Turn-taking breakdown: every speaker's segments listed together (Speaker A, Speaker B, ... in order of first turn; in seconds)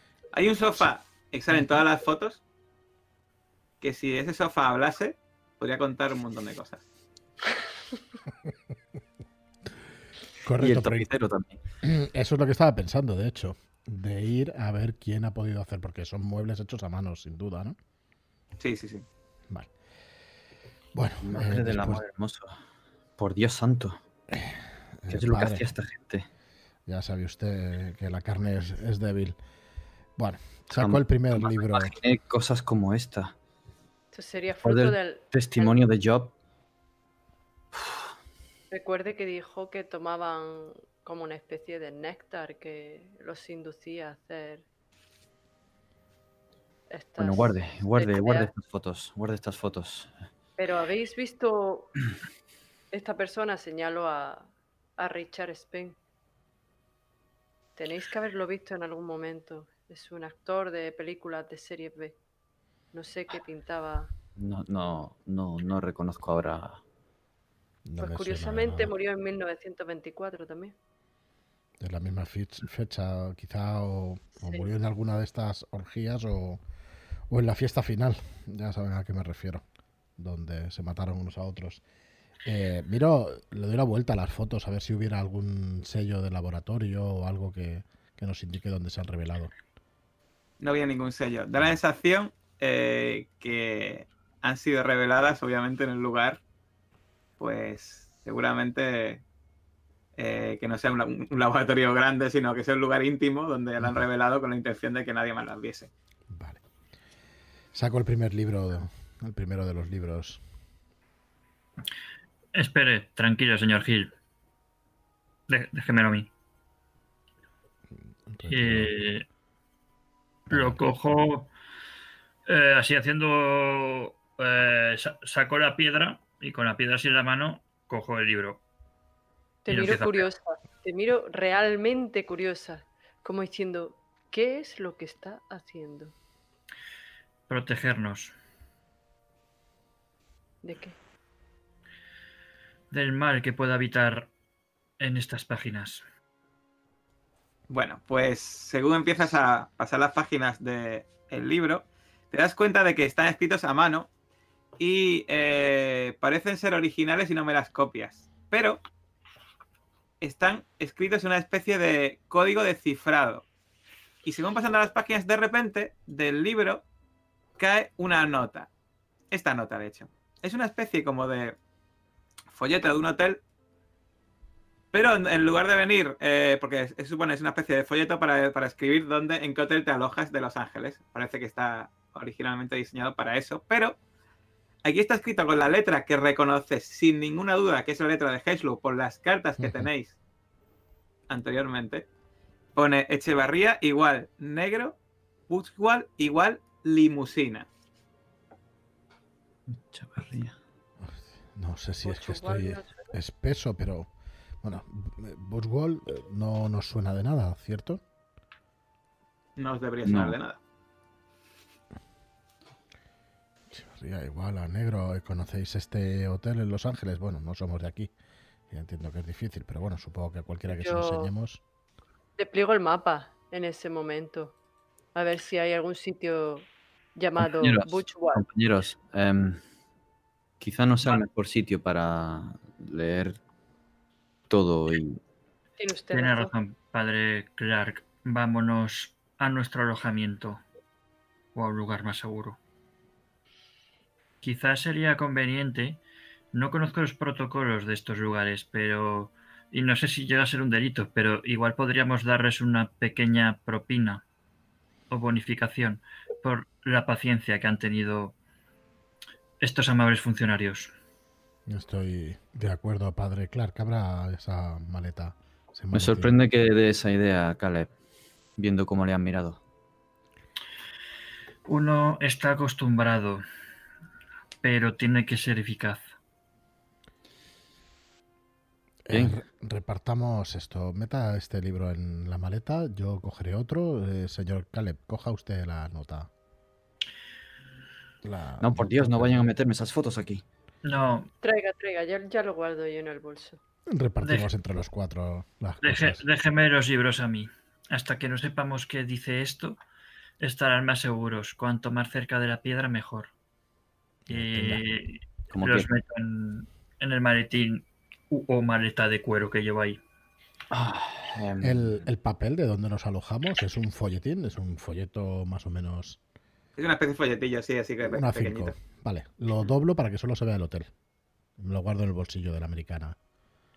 Speaker A: 0.3-2.4, 3.8-6.8, 18.6-19.1, 90.6-96.4, 97.4-99.2, 100.2-105.9, 147.7-154.1, 154.8-158.8, 160.2-163.4, 164.2-166.8, 167.6-168.7, 169.3-171.6, 172.5-173.4, 174.9-184.0, 184.8-190.1, 191.3-192.1, 192.8-195.0, 195.5-197.7, 209.6-210.6, 316.8-318.7
Speaker B: 10.4-11.1, 11.8-17.8, 20.9-22.0, 24.3-25.6, 26.9-29.4, 30.2-31.9, 67.8-68.9, 71.8-76.6, 77.3-79.6, 80.2-81.8, 82.5-89.5, 106.3-106.6, 107.7-110.4, 118.3-118.9, 120.5-120.8, 189.6-189.9, 201.0-204.1, 204.6-208.0, 213.7-218.1, 218.7-221.6, 261.7-266.3, 279.1-286.3, 288.2-289.8, 293.9-296.2, 304.3-304.9, 311.6-316.2, 318.1-320.9, 321.6-323.2
Speaker C: 10.6-11.6, 21.2-22.6, 23.2-24.0, 25.1-26.3, 30.8-33.3, 34.6-36.3, 37.8-38.0, 47.2-50.1, 64.4-66.8, 199.7-200.6, 210.0-210.4, 227.4-229.6, 230.6-233.4, 234.5-235.2, 265.9-267.9, 268.6-269.6, 279.1-279.4, 288.6-290.4, 305.5-305.9, 310.7-312.0
Speaker D: 34.1-35.8, 38.7-44.6, 46.9-48.5, 50.6-51.9, 52.9-56.0, 57.8-62.2, 62.9-64.1, 68.0-70.7, 129.7-136.2, 140.6-141.0, 202.0-203.1, 220.7-221.3, 222.4-224.5, 225.2-228.4, 235.8-236.5, 291.4-293.6
Speaker E: 112.5-114.1, 115.5-116.3, 118.5-119.2, 120.5-121.5, 122.5-128.6, 129.7-130.3, 137.5-138.3, 142.9-144.3, 145.0-146.0, 236.1-240.6, 241.6-242.6, 244.4-246.0, 246.5-254.2, 255.1-258.3, 259.6-260.9, 271.7-273.4, 274.6-276.0, 290.8-291.3, 294.2-294.5, 295.8-299.8, 300.4-303.3, 304.3-310.0